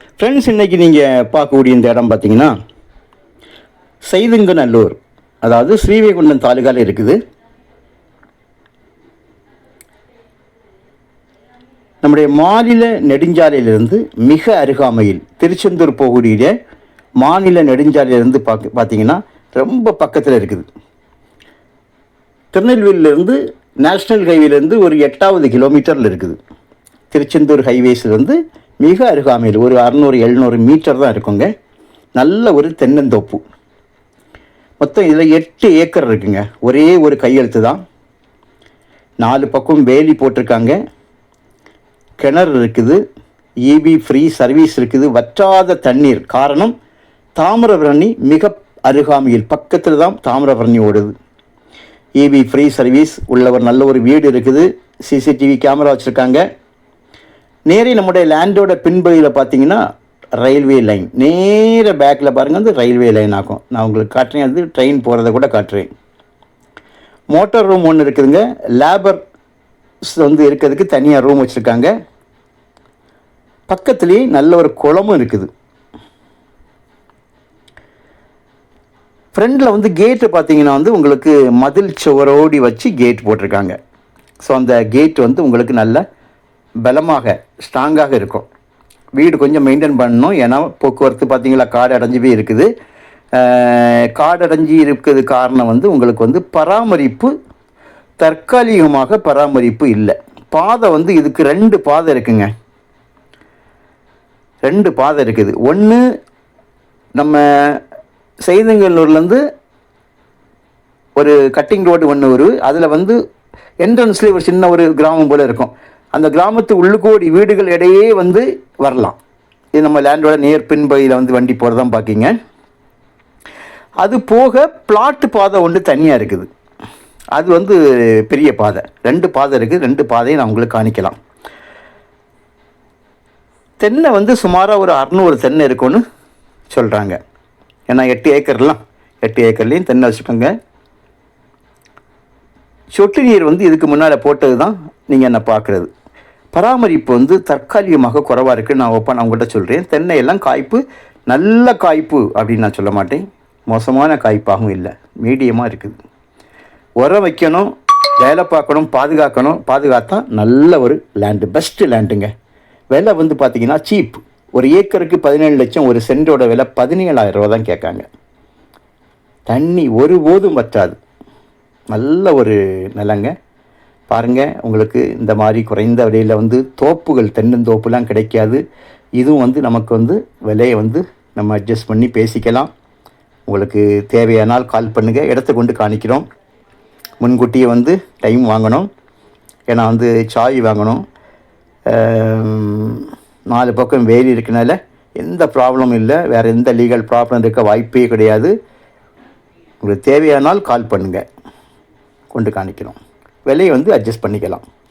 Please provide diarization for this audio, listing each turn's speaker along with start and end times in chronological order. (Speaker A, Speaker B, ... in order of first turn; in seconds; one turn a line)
Speaker A: 0.2-2.5
Speaker A: 4.1-7.2
Speaker A: 12.0-16.5
Speaker A: 17.2-20.6
Speaker A: 22.5-26.4
Speaker A: 27.1-31.5
Speaker A: 32.2-33.4
Speaker A: 34.8-37.8
Speaker A: 39.2-40.8
Speaker A: 42.2-43.0
Speaker A: 43.7-46.7
Speaker A: 47.4-51.1
Speaker A: 52.2-56.4
Speaker A: 57.7-59.8
Speaker A: 60.4-65.9
Speaker A: 67.3-69.2
Speaker A: 70.1-71.9
Speaker A: 73.7-75.5
Speaker A: 79.3-83.8
Speaker A: 84.4-86.0
Speaker A: 86.8-88.5
Speaker A: 89.2-92.7
Speaker A: 93.3-97.3
Speaker A: 98.2-102.5
Speaker A: 104.6-106.0
Speaker A: 107.2-107.8
Speaker A: 108.5-109.4
Speaker A: 111.2-113.2
Speaker A: 113.8-119.2
Speaker A: 119.7-122.3
Speaker A: 124.0-126.5
Speaker A: 127.3-131.2
Speaker A: 133.8-136.0
Speaker A: 136.7-137.2
Speaker A: 137.9-140.5
Speaker A: 142.9-145.9
Speaker A: 146.5-156.0
Speaker A: 157.0-162.3
Speaker A: 162.9-168.1
Speaker A: 169.5-170.9
Speaker A: 171.9-173.3
Speaker A: 174.1-178.6
Speaker A: 179.2-182.7
Speaker A: 183.5-186.2
Speaker A: 187.2-188.9
Speaker A: 189.7-191.0
Speaker A: 191.9-198.5
Speaker A: 199.8-201.2
Speaker A: 202.3-204.6